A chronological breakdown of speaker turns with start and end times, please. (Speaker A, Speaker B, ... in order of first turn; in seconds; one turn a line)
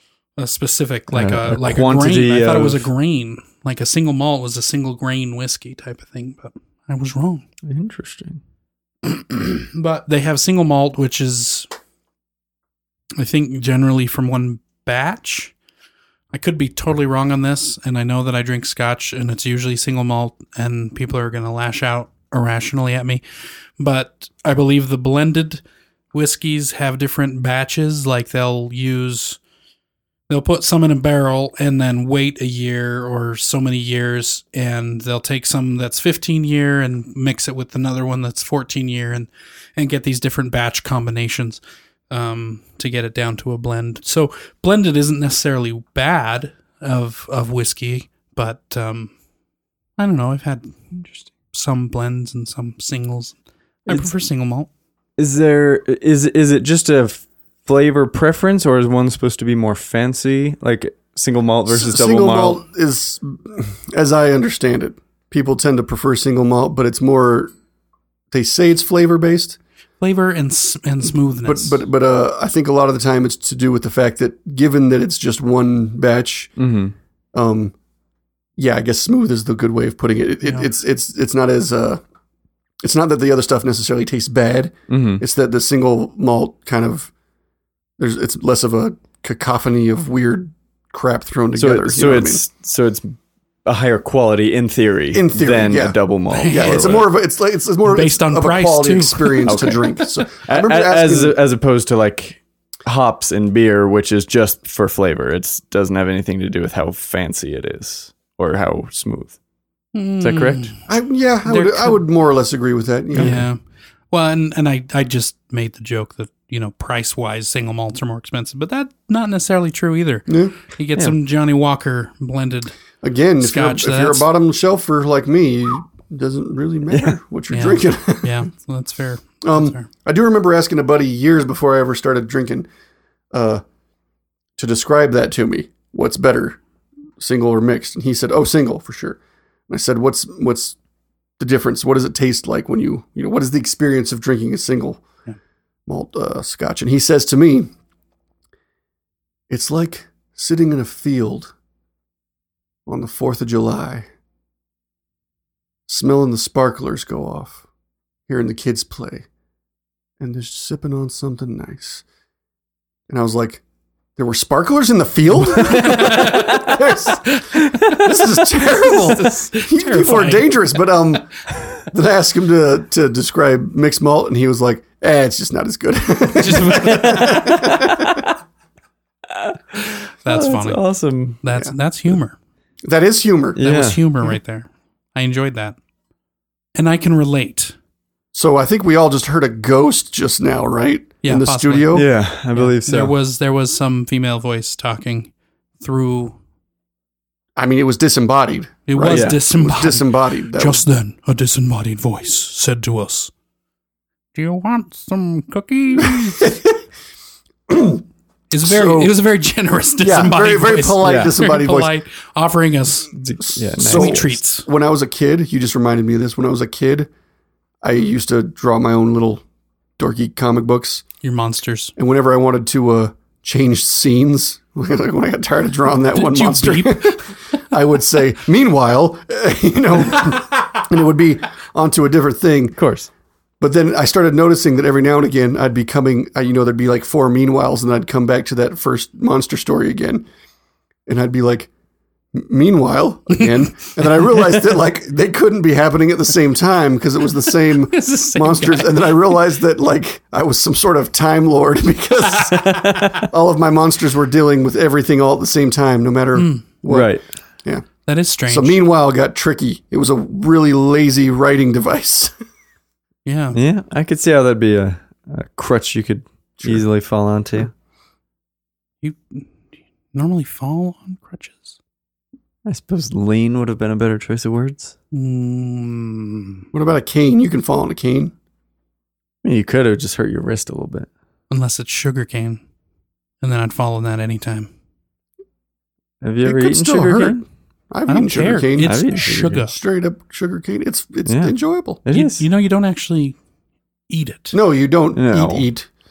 Speaker A: 0.4-7.4
Speaker B: 1.1-2.9
Speaker B: 7.6-8.4
Speaker A: 9.0-11.7
Speaker A: 13.2-15.5
Speaker A: 16.3-23.2
Speaker A: 23.8-25.6
Speaker A: 26.1-29.4
Speaker A: 30.3-49.1
Speaker A: 50.0-50.9
Speaker A: 51.5-54.7
Speaker B: 55.2-62.6
Speaker C: 61.7-67.5
Speaker C: 68.3-69.6
Speaker A: 70.0-71.8
Speaker C: 71.5-76.5
Speaker B: 76.6-76.9
Speaker C: 77.3-77.7
Speaker C: 78.6-82.0
Speaker A: 80.4-80.7
Speaker C: 82.8-87.1
Speaker B: 84.9-85.2
Speaker C: 88.0-92.4
Speaker B: 91.6-97.1
Speaker C: 95.1-101.4
Speaker A: 96.3-97.0
Speaker A: 97.8-100.1
Speaker B: 99.5-109.4
Speaker A: 109.9-110.8
Speaker B: 110.2-110.7
Speaker C: 110.9-113.4
Speaker A: 111.5-112.0
Speaker A: 113.2-113.6
Speaker A: 114.1-122.8
Speaker C: 120.3-120.5
Speaker C: 123.0-128.4
Speaker A: 123.4-124.3
Speaker B: 126.9-127.2
Speaker A: 127.5-129.9
Speaker C: 129.4-132.7
Speaker C: 133.3-133.6
Speaker C: 134.6-136.6
Speaker C: 137.2-140.8
Speaker C: 141.4-145.0
Speaker C: 145.9-147.7
Speaker C: 149.5-151.5
Speaker C: 152.9-154.1
Speaker C: 155.9-157.6
Speaker C: 158.3-159.3
Speaker C: 160.2-162.1
Speaker C: 163.1-163.6
Speaker C: 164.2-171.3
Speaker A: 165.5-168.0
Speaker B: 165.8-166.4
Speaker B: 167.8-168.1
Speaker A: 168.9-170.5
Speaker B: 169.0-169.5
Speaker C: 171.9-178.2
Speaker B: 176.4-178.3
Speaker A: 176.4-176.9
Speaker B: 179.3-181.4
Speaker A: 180.2-180.8
Speaker A: 181.4-182.4
Speaker C: 182.8-183.6
Speaker B: 183.6-184.0
Speaker A: 183.6-185.8
Speaker A: 186.8-187.8
Speaker C: 188.3-192.1
Speaker A: 191.2-192.0
Speaker B: 191.9-193.1
Speaker A: 192.5-196.4
Speaker C: 197.6-200.8
Speaker A: 198.9-203.3
Speaker B: 199.0-199.4
Speaker A: 204.3-206.4
Speaker C: 206.0-206.8
Speaker C: 207.7-208.0
Speaker A: 208.5-213.2
Speaker C: 208.6-209.1
Speaker C: 210.0-211.9
Speaker B: 211.0-211.3
Speaker B: 213.1-214.3
Speaker C: 213.4-217.1
Speaker A: 213.8-214.7
Speaker C: 217.8-219.4
Speaker C: 220.0-221.0
Speaker A: 221.2-221.9
Speaker C: 222.0-232.8
Speaker A: 226.2-227.3
Speaker B: 232.8-233.1
Speaker C: 233.6-240.2
Speaker C: 241.1-241.7
Speaker C: 242.3-257.1
Speaker A: 247.9-249.2
Speaker B: 252.5-253.2
Speaker A: 256.4-256.7
Speaker B: 256.9-257.2
Speaker A: 258.1-258.8
Speaker C: 258.5-262.3
Speaker A: 263.3-263.6
Speaker B: 263.6-267.7
Speaker A: 269.0-271.8
Speaker B: 272.7-274.9
Speaker A: 275.1-276.7
Speaker C: 276.7-278.3
Speaker B: 279.4-281.1
Speaker A: 281.5-282.6
Speaker A: 283.4-284.7
Speaker B: 286.2-287.4
Speaker C: 286.4-292.0
Speaker A: 287.2-287.4
Speaker A: 288.1-289.7
Speaker B: 288.8-289.6
Speaker B: 291.3-292.5
Speaker A: 292.1-293.4
Speaker A: 294.1-294.6
Speaker C: 294.5-295.9
Speaker B: 295.1-295.7